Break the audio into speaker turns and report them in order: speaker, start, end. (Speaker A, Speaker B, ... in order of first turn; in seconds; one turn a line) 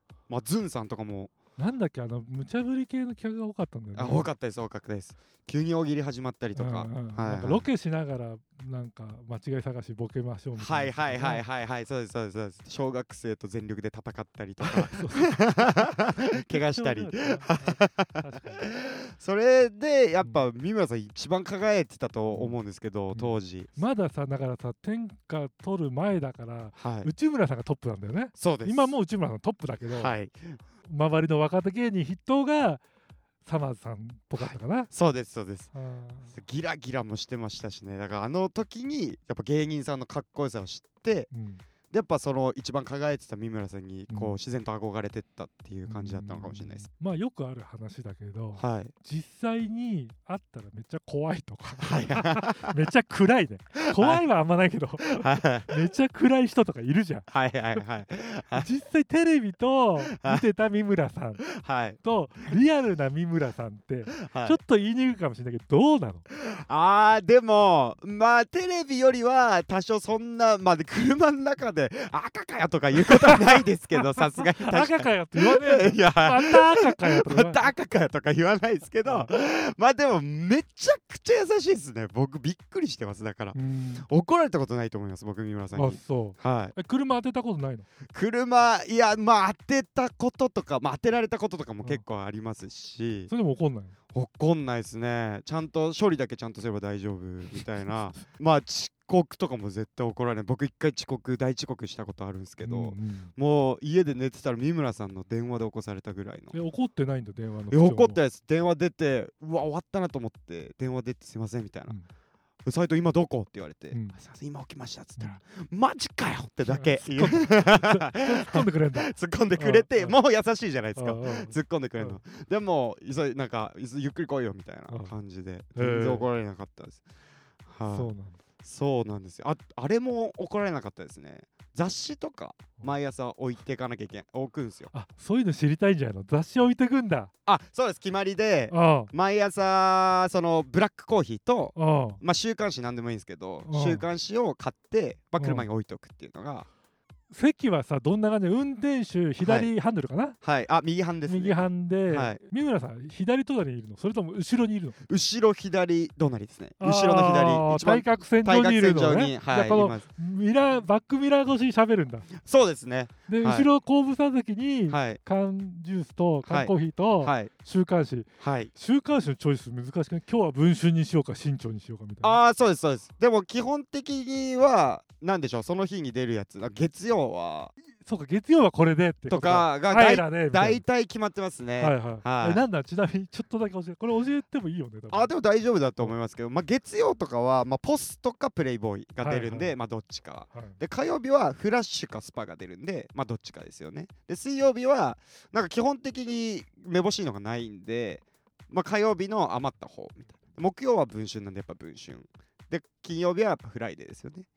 Speaker A: 0.3-1.3
Speaker B: 1.6-4.3
Speaker A: 4.0-7.7
Speaker B: 6.5-11.4
Speaker A: 10.6-23.7
Speaker B: 14.6-18.7
Speaker B: 22.3-22.6
Speaker B: 23.1-30.1
Speaker A: 26.8-27.1
Speaker A: 28.4-28.9
Speaker A: 29.9-30.6
Speaker B: 30.8-32.8
Speaker B: 33.4-34.9
Speaker A: 34.4-35.7
Speaker B: 35.7-36.3
Speaker A: 36.3-41.3
Speaker B: 41.3-41.6
Speaker A: 41.9-46.9
Speaker B: 44.1-44.4
Speaker B: 45.9-57.8
Speaker A: 48.6-48.9
Speaker A: 51.8-52.7
Speaker A: 53.9-54.2
Speaker A: 55.2-55.7
Speaker A: 57.3-58.6
Speaker B: 58.5-66.3
Speaker A: 60.1-60.4
Speaker A: 61.5-62.0
Speaker A: 64.2-64.6
Speaker A: 66.4-86.8
Speaker B: 74.5-77.7
Speaker B: 79.0-79.3
Speaker B: 83.5-84.1
Speaker B: 85.8-87.9
Speaker A: 88.1-93.3
Speaker B: 93.3-93.9
Speaker A: 94.1-106.5
Speaker B: 102.6-103.3
Speaker B: 106.5-108.2
Speaker A: 107.7-112.0
Speaker A: 112.6-127.0
Speaker B: 113.9-114.2
Speaker B: 116.7-120.1
Speaker B: 121.0-122.2
Speaker B: 124.9-125.2
Speaker B: 125.8-126.3
Speaker A: 127.7-128.1
Speaker B: 127.9-128.4
Speaker A: 128.6-134.9
Speaker B: 134.9-137.3
Speaker A: 137.5-146.7
Speaker B: 138.7-139.1
Speaker B: 141.8-142.2
Speaker B: 143.6-144.1
Speaker B: 145.4-145.7
Speaker B: 147.3-150.4
Speaker A: 149.4-149.7
Speaker A: 150.4-152.4
Speaker B: 151.3-155.0
Speaker A: 155.1-160.0
Speaker B: 156.8-162.3
Speaker A: 162.4-163.7
Speaker B: 163.3-172.4
Speaker A: 164.9-165.2
Speaker A: 166.5-167.5
Speaker A: 168.4-168.7
Speaker A: 172.2-177.7
Speaker B: 178.0-180.8
Speaker A: 179.3-182.6
Speaker B: 181.8-185.3
Speaker A: 185.1-204.5
Speaker B: 189.2-189.7
Speaker B: 190.5-190.8